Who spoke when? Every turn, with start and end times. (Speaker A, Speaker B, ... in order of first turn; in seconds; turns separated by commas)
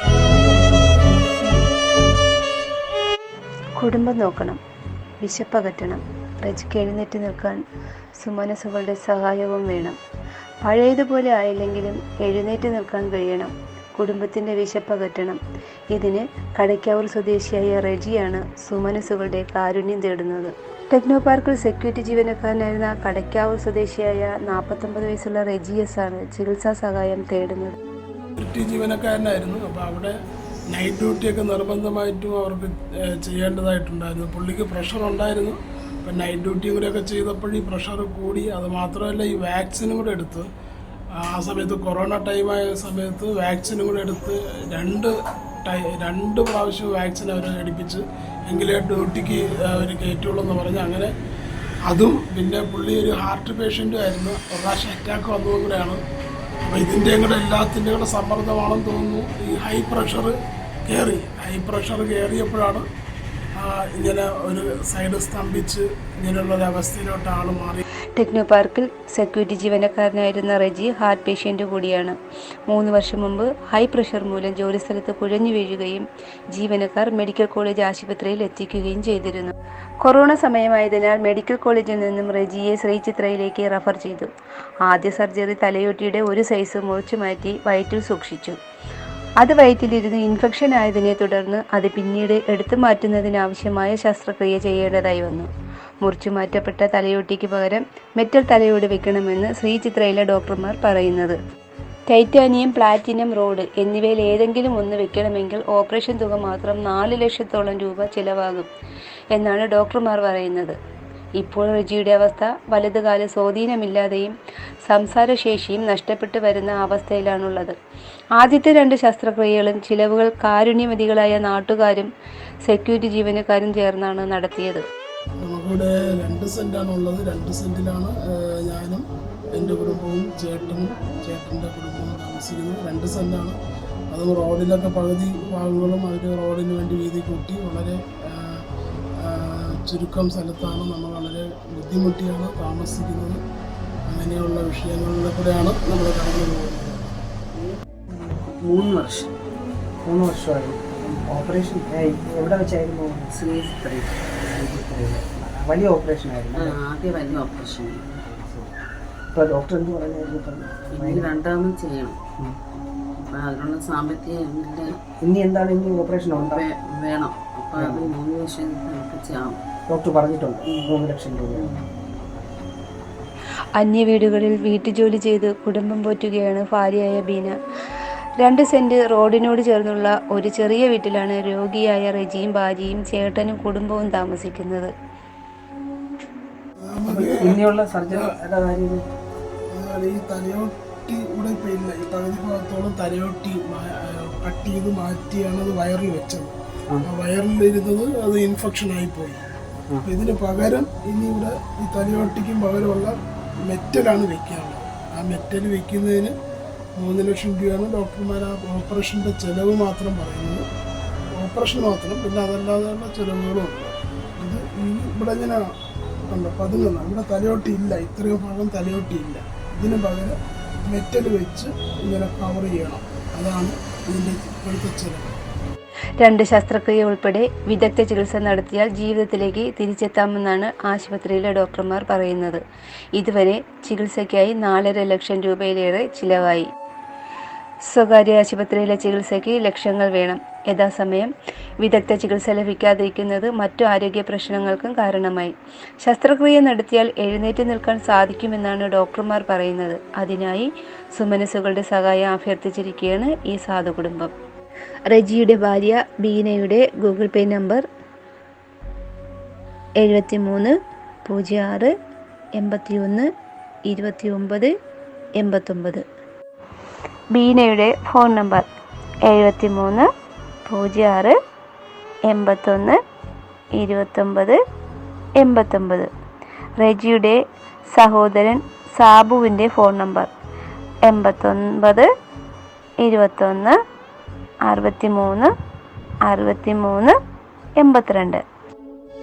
Speaker A: 0.3-1.2, Speaker B: 3.8-4.6, Speaker B: 5.2-7.6, Speaker B: 8.1-10.0, Speaker B: 10.6-15.4, Speaker B: 15.9-27.8, Speaker A: 28.4-30.1, Speaker A: 30.7-40.5, Speaker A: 41.2-45.1, Speaker A: 45.6-51.1, Speaker A: 51.9-56.0, Speaker A: 56.7-62.9, Speaker A: 63.5-67.8, Speaker B: 68.1-84.3, Speaker B: 84.8-88.6, Speaker B: 89.4-95.5, Speaker B: 96.0-101.4, Speaker B: 102.1-108.7, Speaker B: 109.3-110.8, Speaker B: 111.4-117.8, Speaker B: 118.3-122.1, Speaker B: 122.6-124.8, Speaker A: 125.4-133.6, Speaker A: 134.1-138.6, Speaker A: 139.2-143.4, Speaker A: 144.1-147.0, Speaker C: 148.1-149.3, Speaker D: 150.0-153.3, Speaker C: 153.3-154.1, Speaker D: 154.5-156.8, Speaker C: 156.5-158.2, Speaker D: 158.2-158.7, Speaker D: 159.3-161.3, Speaker C: 160.9-162.2, Speaker C: 163.2-165.0, Speaker D: 165.2-166.7, Speaker C: 166.3-169.6, Speaker D: 167.8-168.1, Speaker D: 169.9-171.7, Speaker C: 170.6-171.0, Speaker C: 171.5-171.8, Speaker B: 173.7-177.6, Speaker B: 178.4-184.9, Speaker A: 186.8-188.3, Speaker D: 187.1-189.0, Speaker A: 189.7-199.4, Speaker A: 200.0-206.3, Speaker A: 207.0-210.7, Speaker A: 211.3-215.6, Speaker A: 216.3-220.3, Speaker A: 220.8-225.3, Speaker B: 226.2-232.6, Speaker B: 233.1-236.7, Speaker B: 237.8-254.3, Speaker B: 255.1-257.8, Speaker B: 260.0-261.9, Speaker B: 262.6-263.3, Speaker B: 263.9-264.7, Speaker B: 265.4-266.0, Speaker B: 267.3-268.7, Speaker B: 269.2-270.1, Speaker B: 270.6-271.4, Speaker B: 272.3-273.0, Speaker B: 273.7-274.6, Speaker B: 275.4-276.1, Speaker B: 276.8-277.4, Speaker B: 277.9-280.3, Speaker B: 281.0-282.1, Speaker B: 283.0-283.8, Speaker B: 284.6-285.5, Speaker B: 286.2-287.1, Speaker B: 287.8-288.4